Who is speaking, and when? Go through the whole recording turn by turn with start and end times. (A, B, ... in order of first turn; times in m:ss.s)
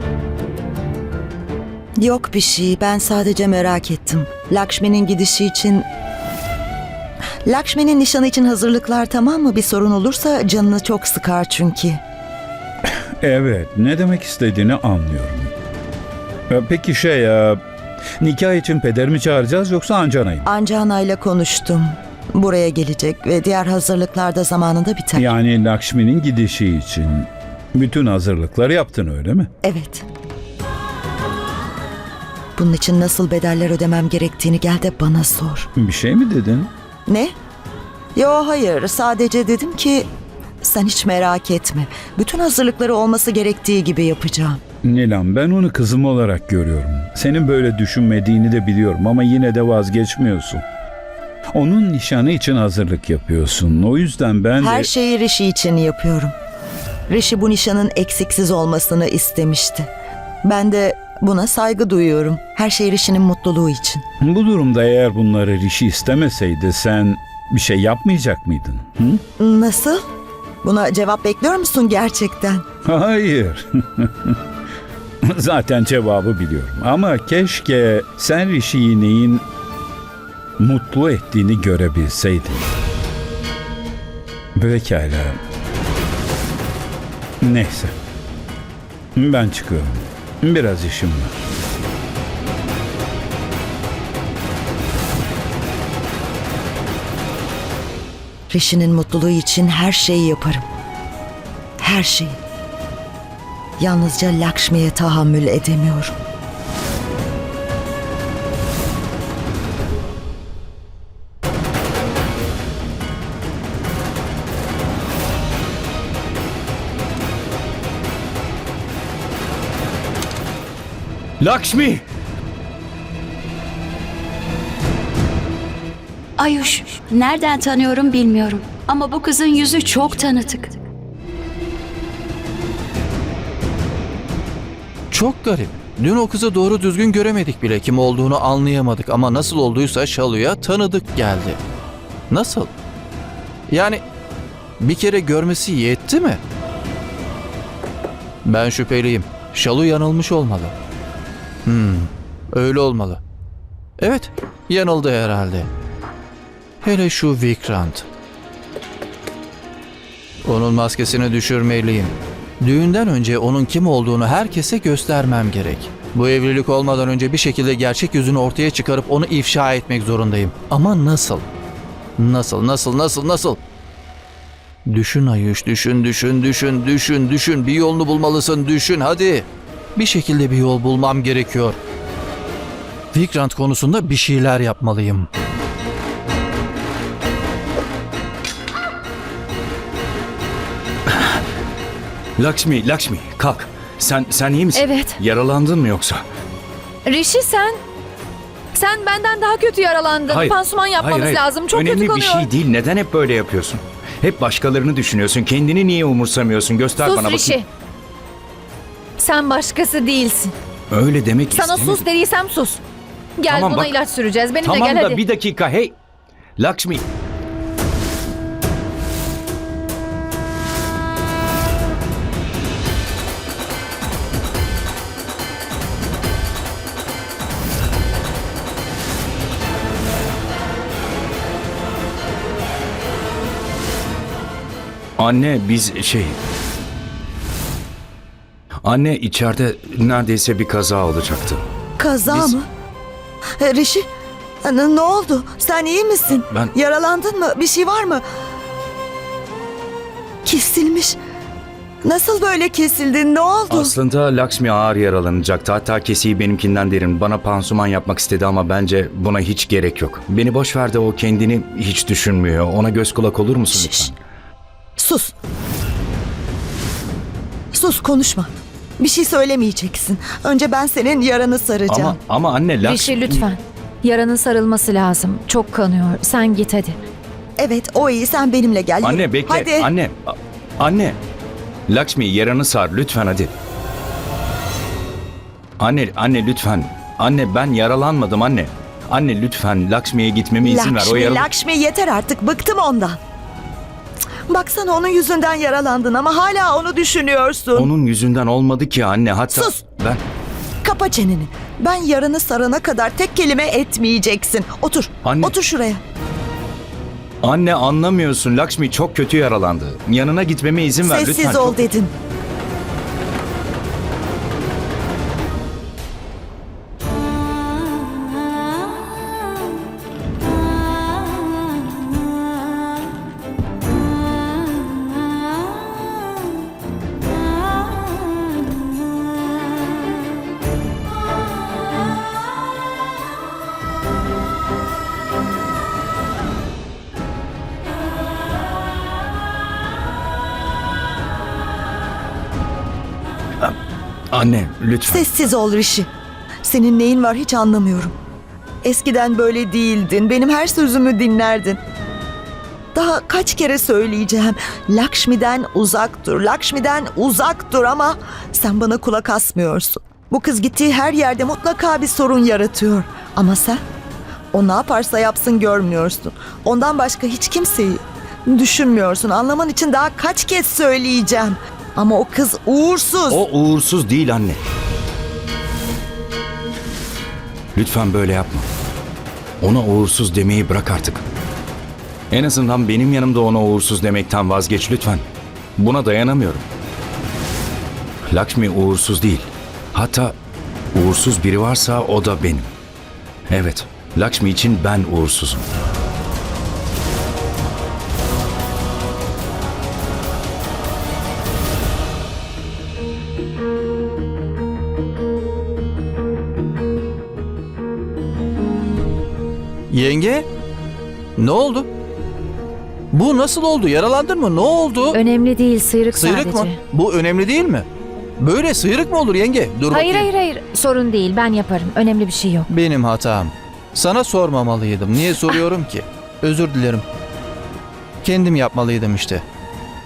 0:02.0-0:05.8 A
0:07.4-0:12.0 A
0:13.2-0:15.5 B
0:16.5-0:17.6 B
0:18.2-0:20.5 B
0:20.4-0:25.3 A
0:25.1-0:29.5 B
0:29.6-0:30.0 A
0:32.6-0:35.7 A
0:35.8-0:36.7 B
0:37.1-0:37.3 A
0:38.1-0:40.1 A
0:40.6-0:44.6 A
0:44.8-0:50.6 B
0:51.5-0:54.9 B
0:54.6-0:56.3 A
0:57.1-0:59.9 A
1:00.4-1:04.0 A
1:04.2-1:09.2 B
1:09.4-1:10.0 A
1:10.6-1:12.6 A
1:12.8-1:14.4 B
1:15.2-1:19.4 B
1:20.6-1:22.7 B
1:24.6-1:25.4 B
1:27.4-1:27.9 B
1:29.1-1:31.3 B
1:38.5-1:40.6 A
1:41.8-1:42.4 A
1:43.8-1:46.1 A
2:01.4-2:02.0 C
2:06.4-2:10.7 D
2:15.1-2:21.6 E
2:22.3-2:22.7 E
2:23.7-2:24.0 E
2:24.8-2:26.4 E
2:28.4-2:30.7 E
2:31.6-2:33.2 E
2:34.0-2:35.7 E
2:36.8-2:38.0 E
2:40.4-2:51.4 E
2:52.2-2:53.6 E
2:54.9-3:01.8 E
3:03.1-3:05.3 E
3:11.1-3:11.4 C
3:12.4-3:16.2 C
3:14.7-3:15.2 F
3:17.0-3:17.8 F
3:18.7-3:22.5 F
3:20.3-3:27.6 C
3:27.0-3:27.7 F
3:29.2-3:30.5 F
3:30.9-3:32.0 C
3:31.5-3:32.8 F
3:33.4-3:35.2 F
3:33.5-3:34.0 C
3:34.6-3:36.0 C
3:36.6-3:37.0 C
3:55.2-3:56.4 C
3:58.8-4:01.6 C
4:02.0-4:02.6 A
4:02.2-4:02.6 C
4:03.6-4:04.0 A
4:04.6-4:08.2 A
4:10.4-4:11.2 A
4:12.0-4:13.9 A
4:13.7-4:24.2 C
4:23.7-4:24.1 A
4:25.0-4:25.3 A
4:27.7-4:32.2 A
4:31.9-4:33.4 C
4:32.8-4:37.0 F
4:37.6-4:39.9 A
4:39.0-4:40.2 C
4:40.8-4:41.2 C
4:41.9-4:43.5 C
4:45.8-4:51.5 C
4:50.6-4:53.2 A
4:54.5-4:57.9 A
4:57.7-5:00.2 C
4:59.5-4:59.8 A
5:00.8-5:06.0 A
5:05.2-5:05.6 C
5:07.4-5:11.8 C
5:11.0-5:12.1 A
5:44.3-5:45.3 C
5:45.0-5:46.1 A
5:46.6-5:48.1 A
5:48.8-5:51.8 A
5:52.9-6:03.8 A
6:04.5-6:13.4 A
6:13.3-6:14.6 C
6:17.7-6:18.7 C
6:19.6-6:21.2 C
6:22.3-6:25.2 C
6:25.8-6:26.7 C
6:28.3-6:30.4 C
6:30.9-6:32.7 C
6:33.5-6:35.7 C
6:49.9-6:50.5 E
6:51.4-6:51.9 E
6:53.1-6:55.2 E
6:55.1-6:56.8 F
6:56.1-6:57.8 E
6:58.4-7:00.3 E
6:59.9-7:02.7 F
7:02.7-7:07.0 E
7:08.2-7:09.4 E